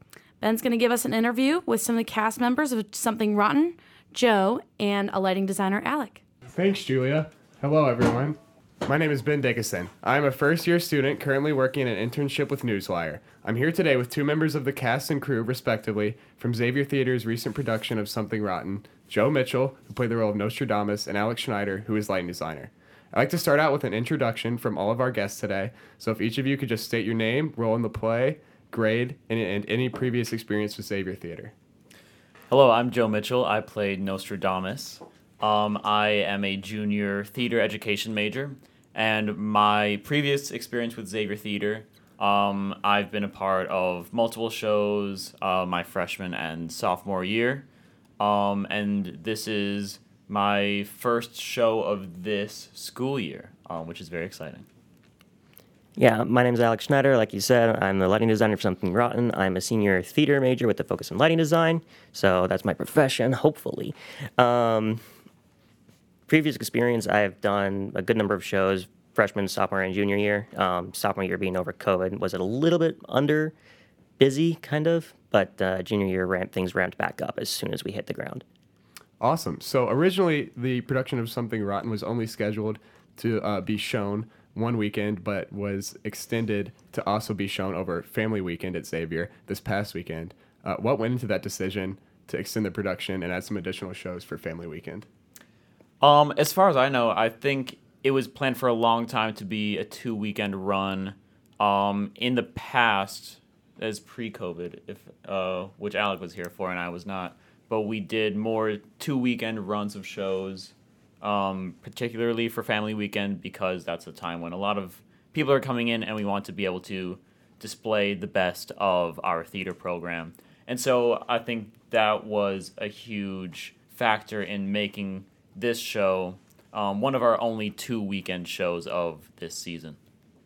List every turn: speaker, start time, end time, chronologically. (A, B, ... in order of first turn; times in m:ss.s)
0:00.4-0:06.2 A
0:06.5-0:31.5 B
0:32.5-0:47.7 C
0:48.2-0:54.7 C
0:56.0-1:05.0 D
1:06.3-1:13.6 D
1:14.2-1:18.4 D
1:19.2-1:35.1 B
1:36.0-2:10.0 C